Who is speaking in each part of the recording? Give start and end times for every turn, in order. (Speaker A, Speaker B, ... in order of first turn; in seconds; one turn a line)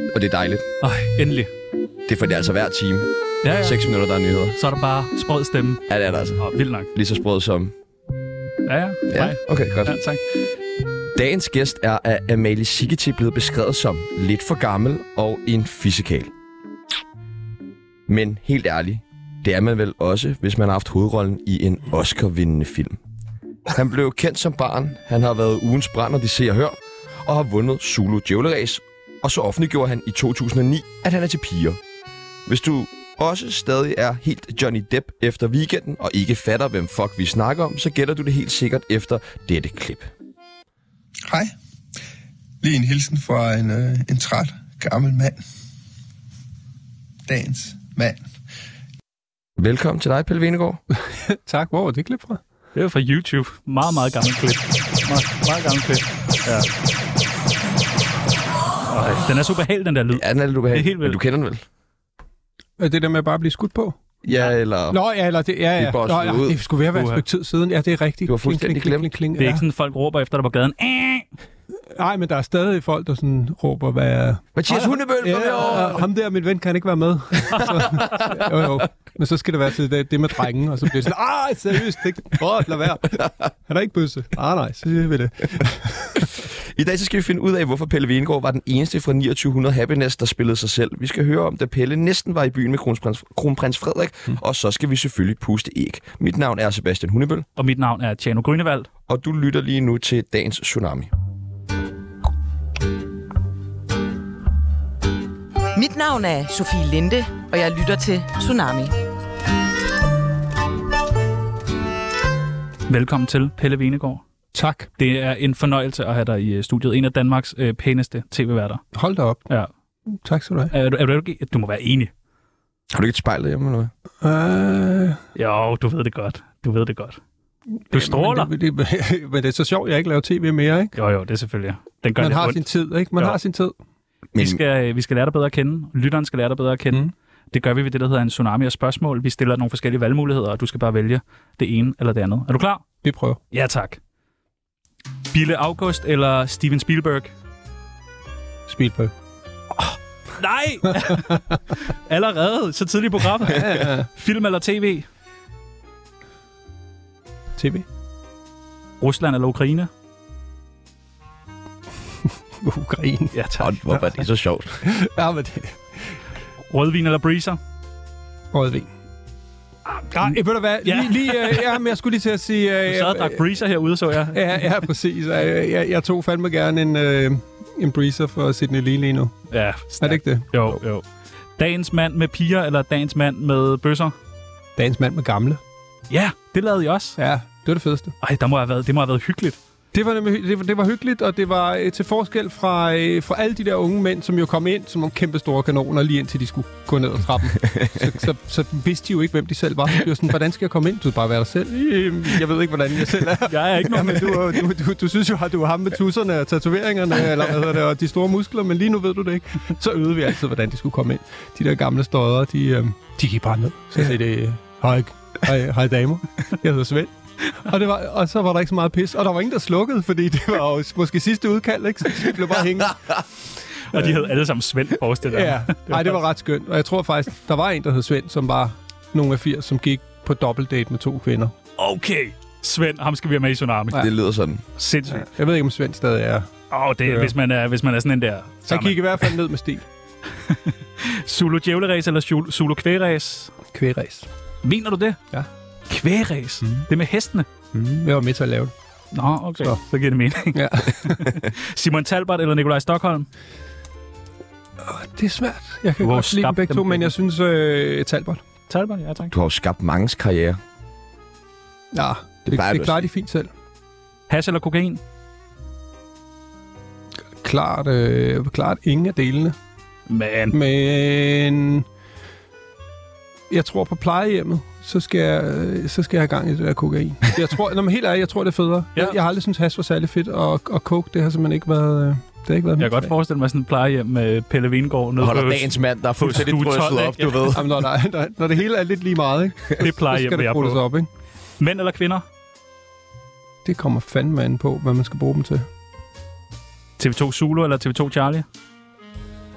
Speaker A: 0.1-0.7
Speaker B: 0.8-1.5
Speaker A: 2.1-4.6
Speaker B: 3.4-3.8
Speaker B: 4.5-5.8
Speaker A: 5.9-6.4
Speaker B: 6.4-6.9
Speaker A: 6.9-7.7
Speaker B: 8.7-10.2
Speaker A: 9.1-10.0
Speaker A: 11.2-16.3
Speaker A: 18.1-23.0
Speaker A: 23.7-31.8
Speaker A: 32.5-40.1
Speaker C: 42.6-45.4
Speaker C: 47.3-48.2
Speaker A: 49.6-50.8
Speaker D: 51.0-52.4
Speaker B: 52.8-56.7
Speaker B: 58.9-61.2
Speaker A: 60.1-61.6
Speaker D: 62.8-64.0
Speaker A: 64.2-65.0
Speaker D: 64.9-69.7
Speaker A: 65.8-66.6
Speaker B: 66.9-67.2
Speaker A: 68.3-69.1
Speaker B: 69.4-71.3
Speaker D: 71.8-86.3
Speaker A: 74.5-76.0
Speaker B: 77.6-78.3
Speaker A: 78.0-78.7
Speaker A: 86.2-97.5
Speaker B: 97.6-98.9
Speaker A: 99.1-101.1
Speaker E: 105.7-109.0
Speaker B: 112.9-114.2
Speaker D: 114.5-114.9
Speaker B: 115.0-118.8
Speaker D: 118.9-119.5
Speaker D: 120.1-120.7
Speaker B: 120.7-122.1
Speaker A: 122.9-123.9
Speaker D: 124.2-125.2
Speaker B: 125.3-127.2
Speaker D: 127.8-130.9
Speaker B: 127.9-128.5
Speaker B: 130.9-132.6
Speaker D: 132.2-133.8
Speaker A: 134.3-134.6
Speaker B: 134.4-142.8
Speaker D: 143.0-143.4
Speaker B: 143.5-144.0
Speaker B: 145.3-147.3
Speaker D: 148.7-149.1
Speaker B: 149.8-155.1
Speaker D: 150.9-151.6
Speaker D: 153.4-154.1
Speaker D: 157.6-157.9
Speaker B: 159.0-159.9
Speaker D: 162.6-163.3
Speaker B: 163.3-163.7
Speaker A: 163.6-164.8
Speaker D: 164.8-166.2
Speaker B: 166.7-167.6
Speaker D: 168.5-168.9
Speaker B: 169.9-170.3
Speaker D: 170.1-173.5
Speaker B: 170.8-171.8
Speaker B: 172.9-174.7
Speaker D: 174.2-179.4
Speaker B: 179.5-181.1
Speaker D: 180.0-180.6
Speaker B: 181.6-184.1
Speaker D: 184.8-185.6
Speaker B: 186.1-187.2
Speaker D: 187.2-188.1
Speaker B: 188.2-189.6
Speaker D: 189.9-223.2
Speaker B: 203.5-204.6
Speaker B: 223.9-226.2
Speaker D: 223.9-224.3
Speaker D: 225.2-231.6
Speaker B: 231.8-234.1
Speaker A: 233.9-234.6
Speaker B: 234.8-235.2
Speaker D: 235.1-236.5
Speaker B: 236.7-239.3
Speaker D: 237.1-237.3
Speaker D: 238.7-239.9
Speaker B: 240.4-243.5
Speaker D: 243.7-244.3
Speaker B: 244.6-245.2
Speaker B: 245.9-247.5
Speaker D: 247.7-248.7
Speaker B: 249.1-253.3
Speaker D: 250.5-251.2
Speaker D: 254.8-258.4
Speaker B: 256.0-257.1
Speaker B: 258.7-259.3
Speaker A: 259.3-260.6
Speaker D: 261.9-263.5
Speaker A: 262.5-263.1
Speaker B: 264.3-265.0
Speaker D: 267.4-269.6
Speaker B: 270.1-270.6
Speaker D: 270.5-271.9
Speaker D: 273.5-283.1
Speaker B: 282.8-287.6
Speaker A: 285.2-287.6
Speaker D: 287.5-291.1
Speaker B: 289.8-290.8
Speaker B: 291.6-292.2
Speaker D: 293.6-295.7
Speaker B: 297.0-298.4